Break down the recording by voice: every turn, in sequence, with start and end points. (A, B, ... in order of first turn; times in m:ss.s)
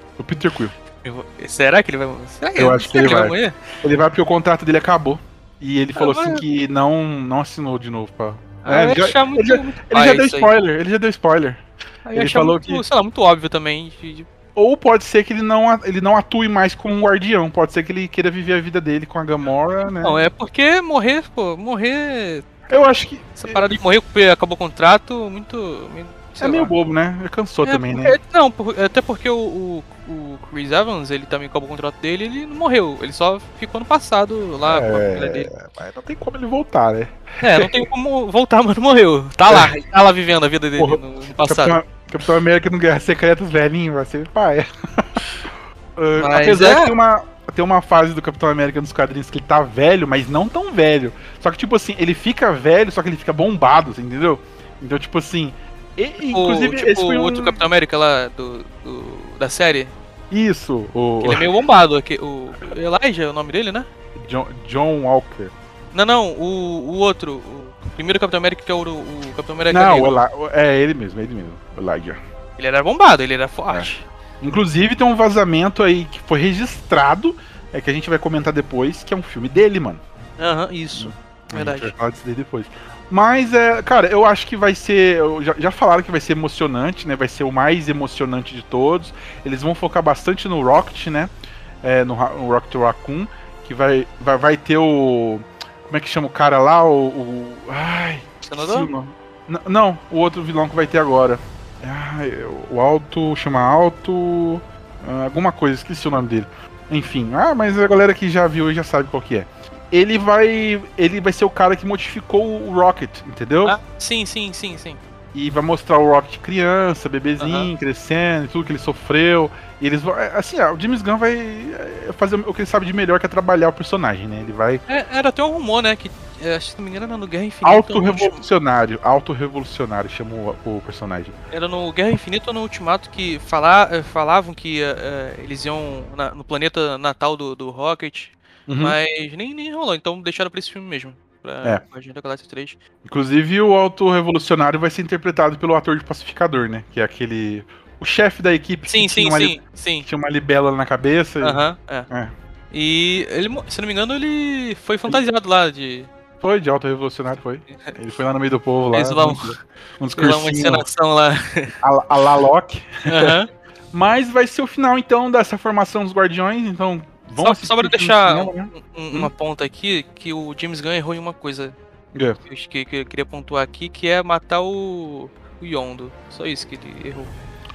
0:00.2-0:00.7 A
0:01.0-0:03.6 B
0:02.6-0:11.6 A
0:06.0-0:06.4 B
0:08.6-0:10.5 B
0:12.0-0:14.3 B
0:12.1-0:12.8 A
0:14.5-0:20.2 A
0:20.0-0:22.4 B
0:22.7-0:23.6 A
0:23.4-0:26.7 B
0:26.4-0:28.2 A
0:27.6-0:35.5 B
0:34.6-0:37.8 A
0:37.4-0:41.8 B
0:39.4-0:39.8 A
0:40.8-0:45.2 A
0:46.0-0:57.6 A
0:46.2-0:46.9 B
0:56.3-0:59.9 B
1:00.3-1:01.5 A
1:01.2-1:03.9 B
1:04.2-1:05.5 A
1:05.9-1:10.2 B
1:09.7-1:12.2 A
1:12.6-1:14.1 B
1:14.4-1:20.0 A
1:20.4-1:21.9 B
1:20.9-1:31.3 A
1:31.8-1:53.8 A
1:38.4-1:38.9 B
1:53.6-1:55.0 B
1:55.3-2:04.8 A
1:57.4-1:57.7 B
2:04.9-2:08.4 B
2:07.6-2:11.4 A
2:11.5-2:22.8 B
2:18.7-2:19.0 A
2:23.0-2:32.3 A
2:28.9-2:30.1 B
2:31.4-2:32.1 B
2:32.7-2:36.1 B
2:36.4-2:40.8 A
2:38.9-2:39.6 B
2:40.2-2:41.8 B
2:41.8-2:43.4 A
2:43.0-2:43.5 B
2:43.9-2:49.3 A
2:47.4-2:51.7 B
2:52.4-2:57.3 B